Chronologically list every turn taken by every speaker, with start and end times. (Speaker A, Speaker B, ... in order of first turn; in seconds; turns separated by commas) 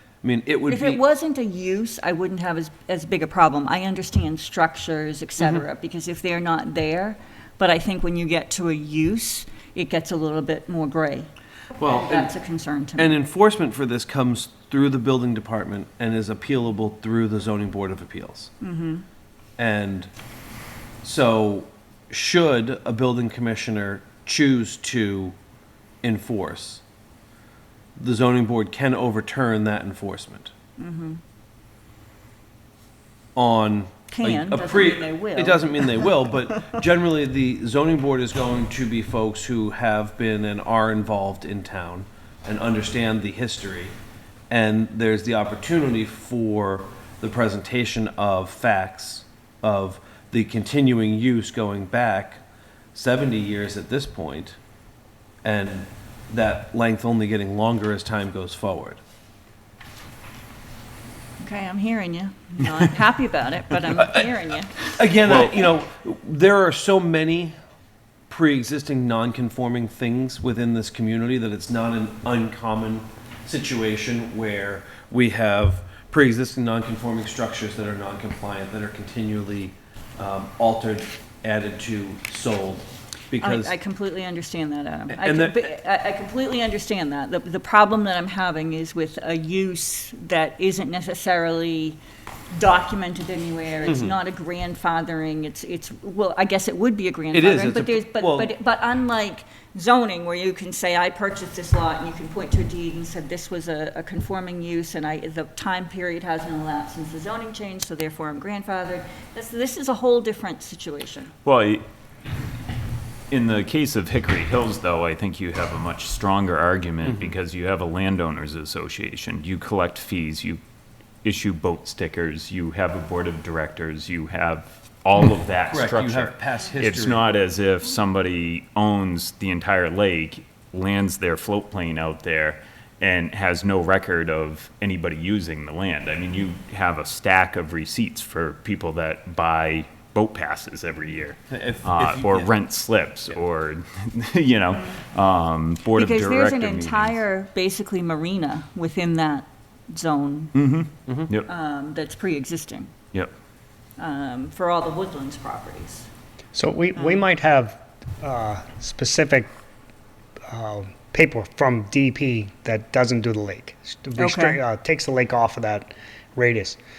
Speaker A: 0.2-1.0, Speaker B: 0.7-11.3, Speaker A: 11.8-12.3, Speaker B: 11.8-13.2, Speaker A: 13.0-18.5, Speaker B: 18.6-19.0, Speaker A: 19.6-20.1, Speaker A: 21.0-25.3, Speaker A: 26.0-26.8, Speaker A: 28.0-30.5, Speaker B: 30.8-31.2, Speaker A: 33.4-43.9, Speaker B: 34.1-36.2, Speaker A: 44.5-52.4, Speaker A: 52.9-54.6, Speaker A: 55.4-59.0, Speaker B: 61.4-64.9, Speaker A: 64.9-67.5, Speaker A: 68.3-83.8, Speaker B: 83.4-92.0, Speaker A: 85.1-85.7, Speaker B: 92.5-111.3, Speaker A: 93.8-94.1, Speaker A: 97.3-98.5, Speaker C: 111.4-111.8, Speaker C: 113.3-120.6, Speaker A: 117.0-117.3, Speaker C: 121.2-147.2, Speaker A: 125.7-127.2, Speaker A: 141.5-142.5, Speaker B: 145.9-150.5, Speaker C: 150.5-151.5, Speaker B: 151.4-152.9, Speaker B: 154.0-156.1, Speaker D: 156.5-159.5, Speaker B: 156.9-157.2, Speaker D: 160.5-166.8, Speaker B: 164.2-164.6